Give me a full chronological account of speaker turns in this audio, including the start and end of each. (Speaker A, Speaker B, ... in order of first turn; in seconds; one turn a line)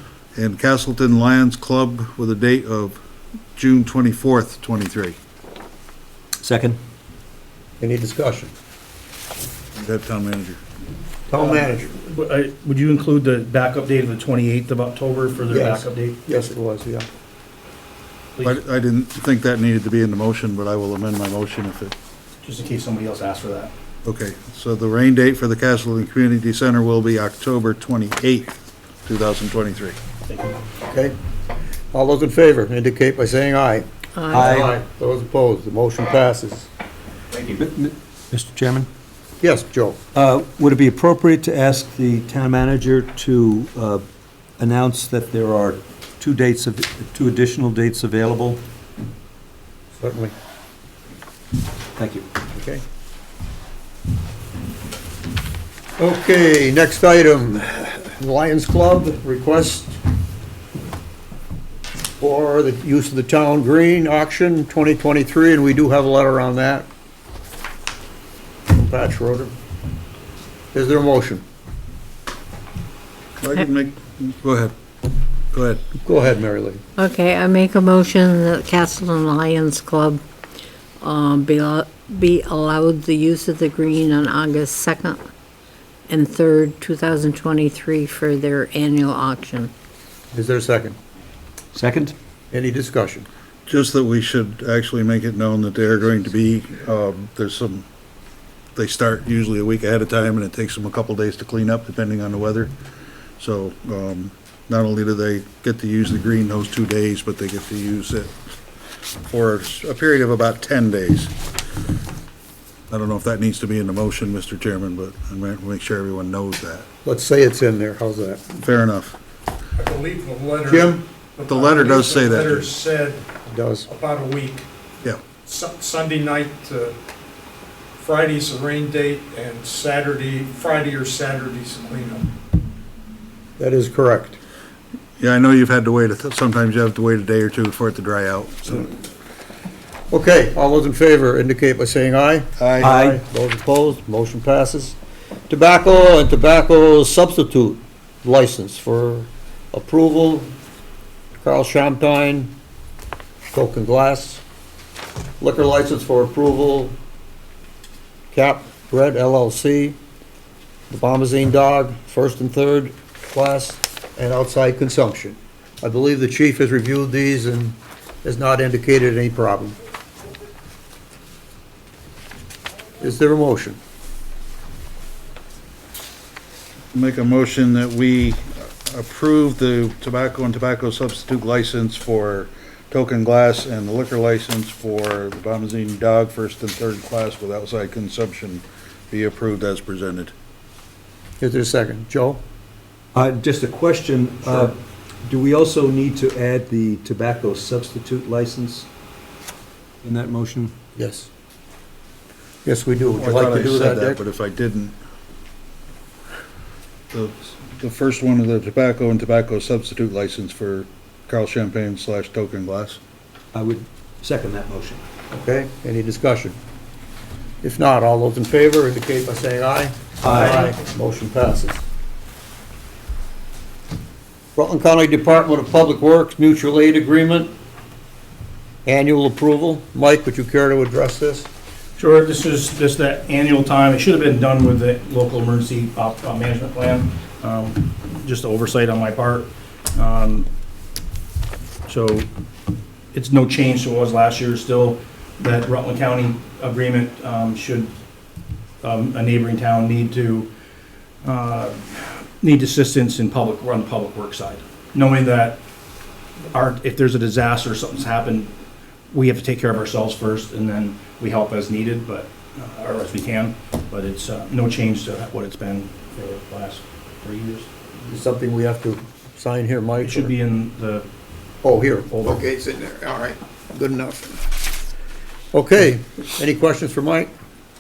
Speaker A: 0.4-3.0
Speaker A: 3.6-5.2
Speaker B: 6.4-6.8
Speaker C: 7.8-8.5
Speaker A: 9.8-10.6
Speaker C: 11.3-11.9
Speaker D: 11.4-16.2
Speaker C: 15.5-17.1
Speaker A: 18.4-21.9
Speaker D: 22.4-23.7
Speaker A: 24.1-30.0
Speaker D: 30.3-30.6
Speaker C: 30.9-31.1
Speaker C: 31.9-36.7
Speaker E: 34.2-34.5
Speaker B: 34.3-34.7
Speaker B: 37.5-38.9
Speaker C: 39.4-40.0
Speaker B: 40.1-44.0
Speaker B: 44.6-48.6
Speaker C: 50.0-50.3
Speaker B: 52.0-52.3
Speaker C: 52.5-52.8
Speaker C: 56.0-60.0
Speaker C: 62.2-66.9
Speaker C: 68.7-69.5
Speaker C: 70.7-71.4
Speaker A: 73.4-74.8
Speaker A: 75.5-75.8
Speaker C: 76.0-76.8
Speaker E: 77.0-80.2
Speaker E: 81.0-85.2
Speaker E: 86.1-89.7
Speaker C: 90.3-91.0
Speaker B: 91.7-92.1
Speaker C: 92.5-93.3
Speaker A: 93.7-97.9
Speaker A: 98.8-102.7
Speaker A: 103.4-108.3
Speaker A: 109.2-111.3
Speaker A: 112.9-116.9
Speaker C: 117.0-118.4
Speaker A: 118.6-119.2
Speaker F: 119.8-123.3
Speaker C: 120.7-121.0
Speaker A: 121.5-122.7
Speaker C: 123.5-123.9
Speaker F: 123.9-124.7
Speaker F: 125.4-127.0
Speaker F: 128.0-132.3
Speaker C: 133.6-134.4
Speaker A: 135.2-138.9
Speaker C: 140.1-145.0
Speaker A: 142.6-142.9
Speaker B: 142.8-143.2
Speaker C: 145.5-150.5
Speaker C: 151.4-152.5
Speaker C: 153.4-154.4
Speaker C: 155.4-156.9
Speaker C: 158.3-160.0
Speaker C: 160.9-169.8
Speaker C: 173.0-173.8
Speaker A: 176.9-190.3
Speaker C: 191.4-192.4
Speaker B: 193.2-198.9
Speaker B: 200.0-200.7
Speaker C: 201.0-201.3
Speaker C: 202.7-204.2
Speaker A: 203.2-205.0
Speaker A: 207.1-213.0
Speaker B: 213.5-215.0
Speaker C: 215.3-216.6
Speaker C: 217.6-221.8
Speaker B: 220.2-220.7
Speaker C: 224.6-227.5
Speaker C: 228.9-231.5
Speaker D: 232.0-240.5
Speaker D: 241.9-242.3
Speaker D: 243.1-247.9
Speaker D: 248.8-250.5
Speaker D: 251.2-255.6
Speaker D: 256.5-258.5
Speaker D: 259.1-267.7
Speaker C: 268.0-270.3
Speaker D: 270.0-271.1
Speaker C: 271.6-274.4
Speaker D: 272.1-272.4
Speaker C: 275.5-277.3